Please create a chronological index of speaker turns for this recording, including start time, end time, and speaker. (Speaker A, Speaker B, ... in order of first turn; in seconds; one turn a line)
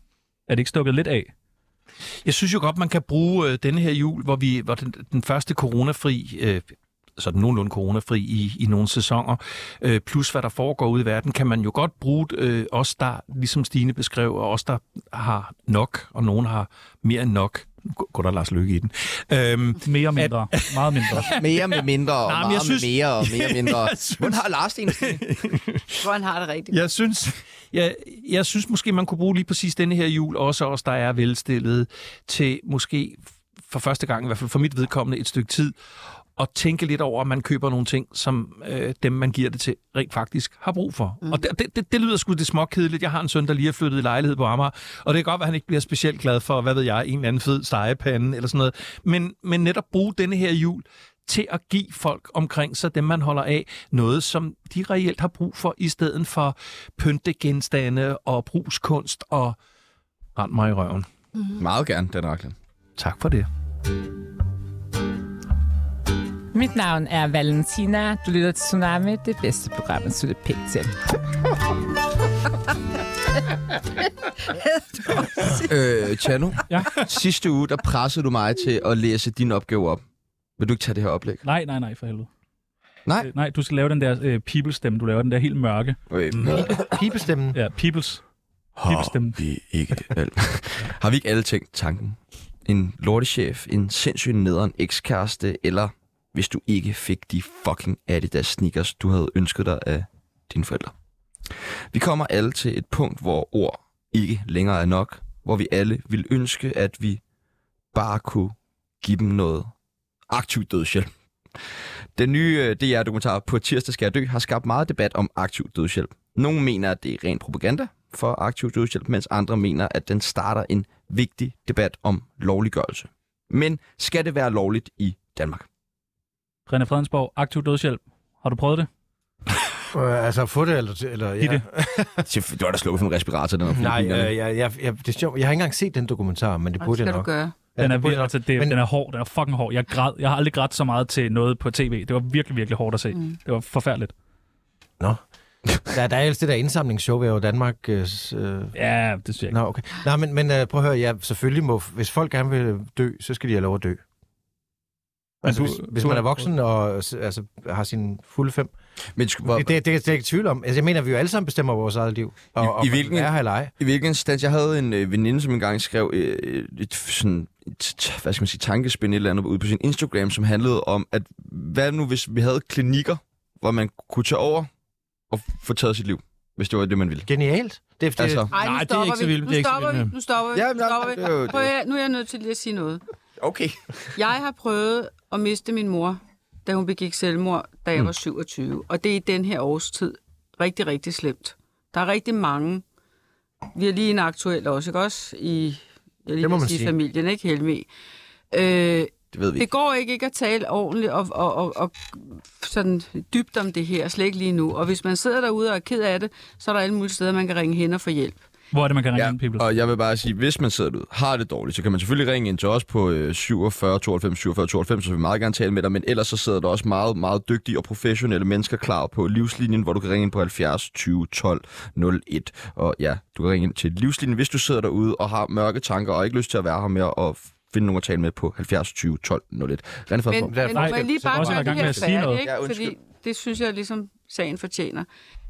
Speaker A: 0.5-1.3
Speaker B: 2.2-6.6
Speaker B: 7.2-26.1
Speaker A: 19.8-21.3
Speaker C: 21.3-25.2
Speaker D: 26.0-26.8
Speaker B: 26.7-35.7
Speaker B: 36.4-59.6
Speaker B: 60.4-61.0
Speaker C: 61.5-62.5
Speaker B: 63.0-63.5
Speaker E: 66.5-70.9
Speaker D: 74.5-75.7
Speaker C: 75.5-80.0
Speaker C: 80.6-81.4
Speaker A: 81.4-82.3
Speaker A: 83.2-86.0
Speaker C: 86.1-86.8
Speaker F: 86.4-87.6
Speaker A: 87.5-88.2
Speaker C: 88.8-100.9
Speaker A: 88.8-89.4
Speaker C: 101.9-107.2
Speaker C: 107.9-109.7
Speaker C: 110.3-111.1
Speaker C: 112.2-125.7
Speaker A: 126.7-128.9
Speaker F: 129.9-132.2
Speaker C: 132.2-134.3
Speaker F: 133.7-138.8
Speaker D: 136.8-137.5
Speaker A: 137.8-144.1
Speaker F: 145.0-148.7
Speaker A: 148.7-149.6
Speaker F: 149.5-154.0
Speaker F: 155.4-158.7
Speaker A: 155.7-156.4
Speaker C: 159.2-159.7
Speaker F: 159.4-163.7
Speaker C: 162.6-174.7
Speaker C: 175.3-177.3
Speaker F: 177.2-178.5
Speaker C: 178.2-178.5
Speaker D: 178.5-183.0
Speaker B: 178.5-180.1
Speaker C: 180.5-181.7
Speaker C: 183.4-183.9
Speaker D: 184.2-192.8
Speaker D: 193.7-197.9
Speaker F: 196.4-196.9
Speaker D: 198.5-208.4
Speaker C: 199.3-199.7
Speaker A: 208.7-209.7
Speaker C: 209.1-230.6
Speaker D: 230.3-235.1
Speaker F: 230.5-232.1
Speaker A: 230.8-232.4
Speaker C: 232.4-232.9